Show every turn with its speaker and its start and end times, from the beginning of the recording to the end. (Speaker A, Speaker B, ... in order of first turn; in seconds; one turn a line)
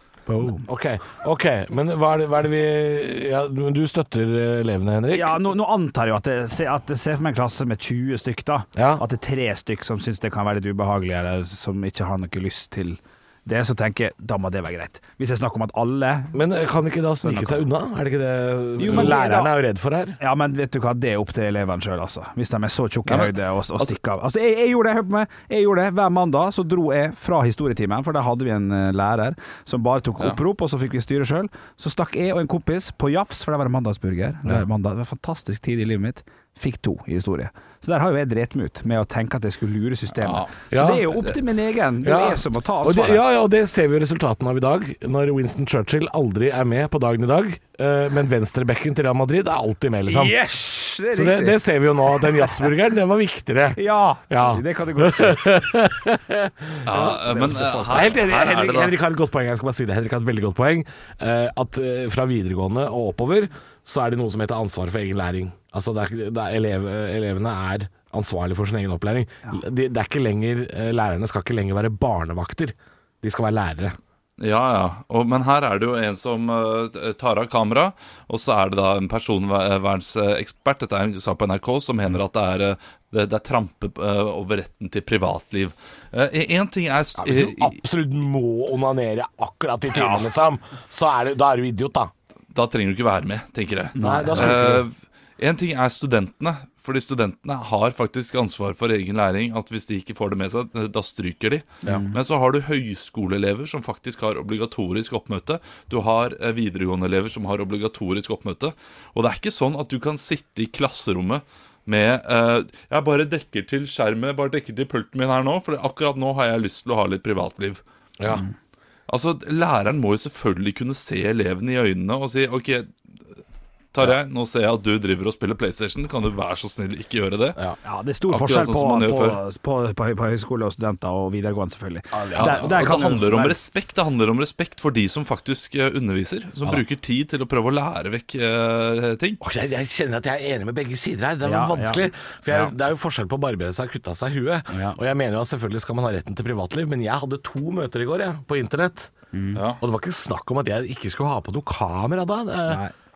Speaker A: 0.3-5.4
Speaker B: 5.1-16.4
Speaker A: 8.8-9.0
Speaker A: 16.3-20.2
Speaker B: 17.2-17.6
Speaker B: 18.8-19.5
Speaker B: 20.2-43.2
Speaker C: 23.1-23.9
Speaker C: 40.2-40.5
Speaker A: 40.7-41.1
Speaker A: 42.0-50.4
Speaker B: 50.1-51.6
Speaker A: 51.1-74.0
Speaker B: 52.2-52.6
Speaker B: 53.8-55.4
Speaker C: 56.8-59.0
Speaker B: 57.1-58.1
Speaker C: 74.4-87.8
Speaker A: 87.2-92.1
Speaker B: 89.9-90.2
Speaker C: 92.5-117.8
Speaker B: 93.9-94.7
Speaker A: 94.0-94.8
Speaker B: 101.8-102.2
Speaker A: 118.2-118.4
Speaker C: 119.1-123.4
Speaker C: 123.9-127.6
Speaker B: 127.8-133.6
Speaker C: 128.3-129.4
Speaker A: 132.1-133.0
Speaker C: 132.3-139.4
Speaker A: 139.4-149.1
Speaker B: 141.4-142.6
Speaker B: 144.7-145.0
Speaker B: 149.3-149.6
Speaker C: 149.5-149.8
Speaker A: 149.8-152.8
Speaker B: 152.7-152.9